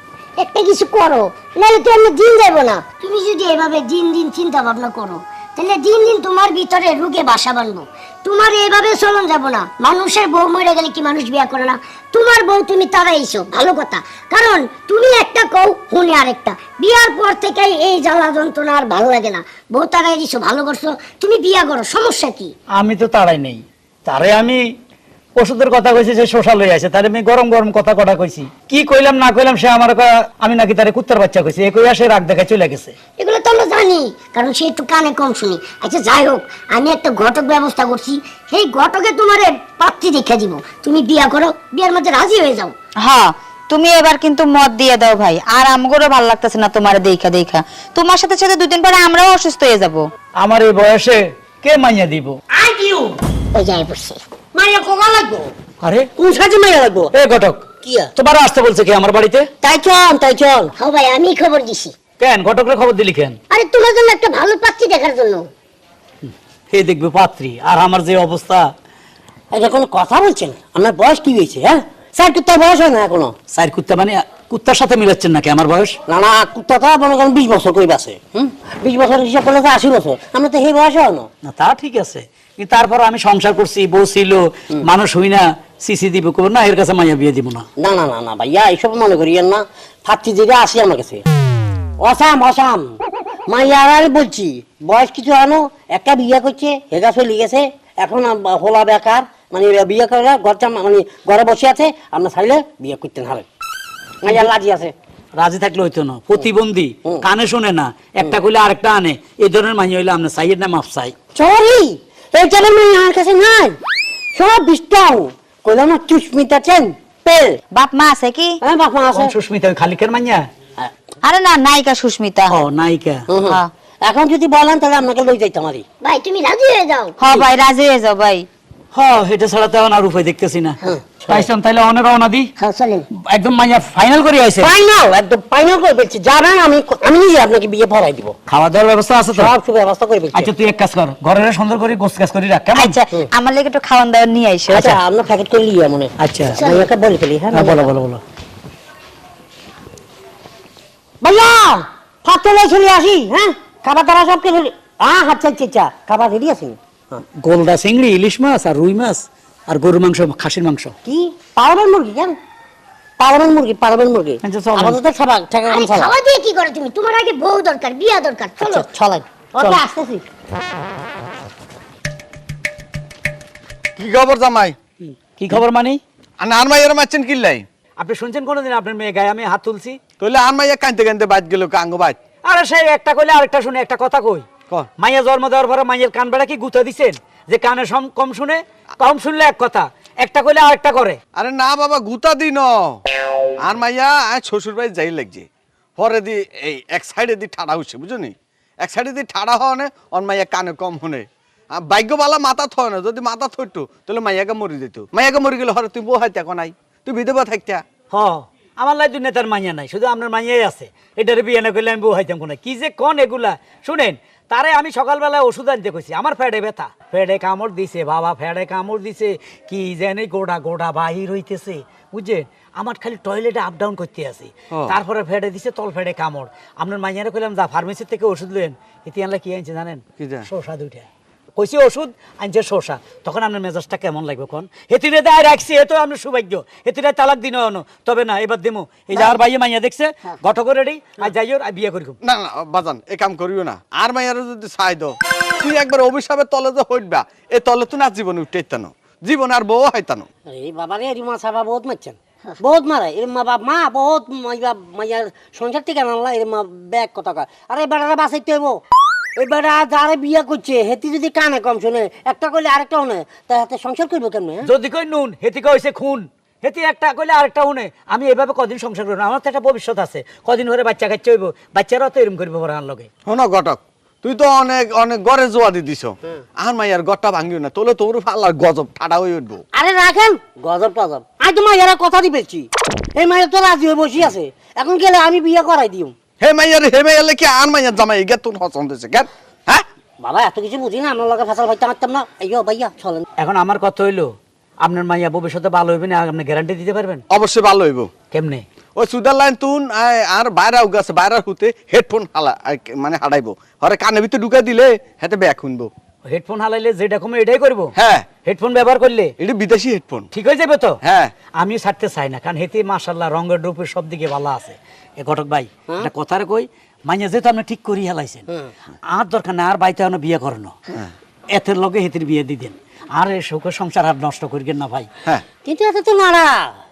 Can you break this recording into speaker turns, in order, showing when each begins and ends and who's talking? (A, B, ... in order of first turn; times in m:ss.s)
0:00.4-0:22.5 A
0:22.8-0:24.6 B
0:25.4-0:32.9 B
0:33.2-0:42.7 A
0:43.0-0:50.0 C
0:50.4-0:52.4 B
0:52.5-0:53.2 D
0:53.5-0:54.2 A
0:54.5-0:55.5 D
0:55.8-0:56.1 B
0:56.2-0:57.1 D
0:57.1-0:59.5 B
0:57.8-0:58.1 D
0:59.6-1:00.7 D
1:00.8-1:01.9 A
1:02.2-1:03.4 B
1:03.5-1:05.5 A
1:06.3-1:08.7 B
1:09.5-1:13.3 D
1:13.5-1:16.0 B
1:16.1-1:21.3 D
1:21.4-1:27.6 B
1:27.8-1:31.2 D
1:32.0-1:32.9 D
1:33.5-1:43.4 D
1:44.2-1:44.9 D
1:45.4-1:51.1 B
1:51.3-1:53.8 D
1:54.3-1:57.6 D
1:57.7-1:58.6 C
1:58.6-1:59.3 D
1:59.1-2:00.4 B
2:01.2-2:02.5 C
2:02.5-2:03.2 B
2:03.3-2:05.8 D
2:06.0-2:07.2 A
2:07.2-2:08.5 C
2:08.9-2:12.5 B
2:10.8-2:11.5 D
2:12.6-2:13.1 A
2:13.1-2:14.7 B
2:14.6-2:18.3 D
2:18.5-2:19.5 B
2:19.3-2:20.5 D
2:20.3-2:22.9 B
2:22.7-2:24.9 C
2:24.7-2:27.9 D
2:26.2-2:26.6 B
2:26.6-2:26.9 A
2:27.5-2:28.2 B
2:31.2-2:37.2 D
2:37.4-2:40.9 B
2:41.0-2:42.4 D
2:43.2-2:46.1 D
2:44.4-2:45.0 B
2:45.7-2:48.9 A
2:48.6-2:50.2 D
2:54.0-2:54.8 E
2:55.4-2:56.0 B
2:56.4-2:57.6 E
2:58.0-3:00.0 B
3:00.2-3:02.2 E
3:02.5-3:04.4 B
3:05.0-3:11.2 B
3:11.4-3:13.0 E
3:13.6-3:27.8 E
3:28.1-4:02.2 B
3:50.2-3:50.4 E
4:02.2-4:10.2 E
4:10.4-4:18.8 D
4:19.4-4:24.6 D
4:24.6-4:33.1 B
4:33.2-4:39.6 E
4:39.7-4:46.1 D
4:46.4-4:49.8 E
4:50.2-4:53.2 D
4:53.4-4:54.3 B
4:54.8-4:57.2 B
4:57.3-4:58.1 E
4:58.3-4:58.6 B
4:59.0-5:05.9 E
5:06.3-5:07.9 B
5:08.0-5:08.3 E
5:08.4-5:09.3 B
5:09.4-5:10.3 E
5:10.3-5:11.0 B
5:11.0-5:11.3 E
5:11.6-5:18.4 B
5:19.1-5:20.7 B
5:21.5-5:25.1 B
5:25.6-5:26.7 D